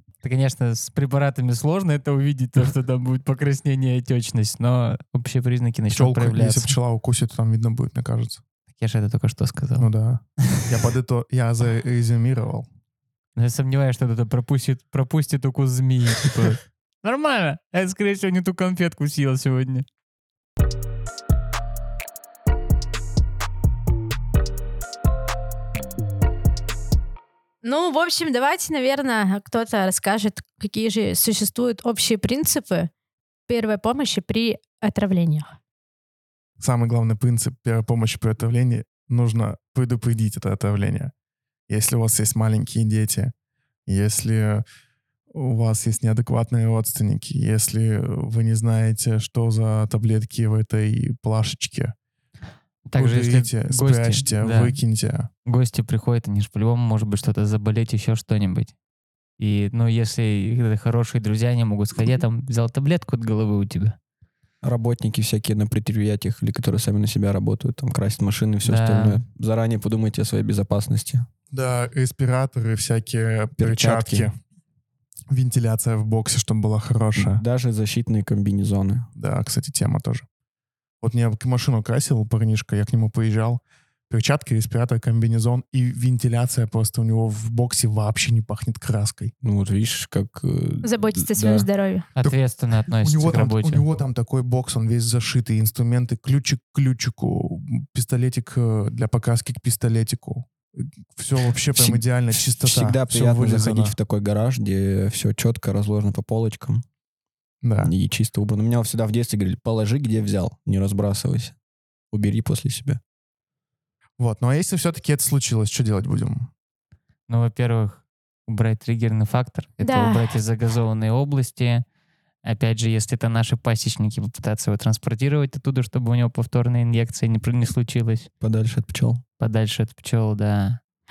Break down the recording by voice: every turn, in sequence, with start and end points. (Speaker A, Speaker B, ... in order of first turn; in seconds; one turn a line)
Speaker A: 0.2-6.8
Speaker B: 5.9-8.4
Speaker A: 8.8-9.9
Speaker B: 9.8-12.7
Speaker A: 13.3-19.8
Speaker C: 27.6-32.9
Speaker C: 33.5-35.5
Speaker B: 36.6-41.1
Speaker B: 41.7-43.3
Speaker B: 43.9-44.6
Speaker B: 45.3-51.9
Speaker A: 52.9-54.8
Speaker B: 52.9-55.3
Speaker A: 55.5-58.7
Speaker A: 59.4-64.0
Speaker D: 64.6-71.3
Speaker A: 68.6-69.2
Speaker B: 71.5-74.4
Speaker D: 73.6-74.3
Speaker B: 75.3-77.4
Speaker D: 77.2-79.1
Speaker B: 79.2-80.2
Speaker B: 81.0-89.3
Speaker D: 89.4-91.7
Speaker C: 90.8-92.0
Speaker A: 92.1-93.8
Speaker B: 93.0-104.0
Speaker D: 101.7-106.8
Speaker B: 107.6-107.9
Speaker D: 107.8-111.5
Speaker D: 112.1-113.0
Speaker B: 114.2-116.5
Speaker A: 117.3-121.8
Speaker C: 119.8-120.4
Speaker A: 122.4-128.3
Speaker D: 128.4-129.2
Speaker A: 129.4-130.8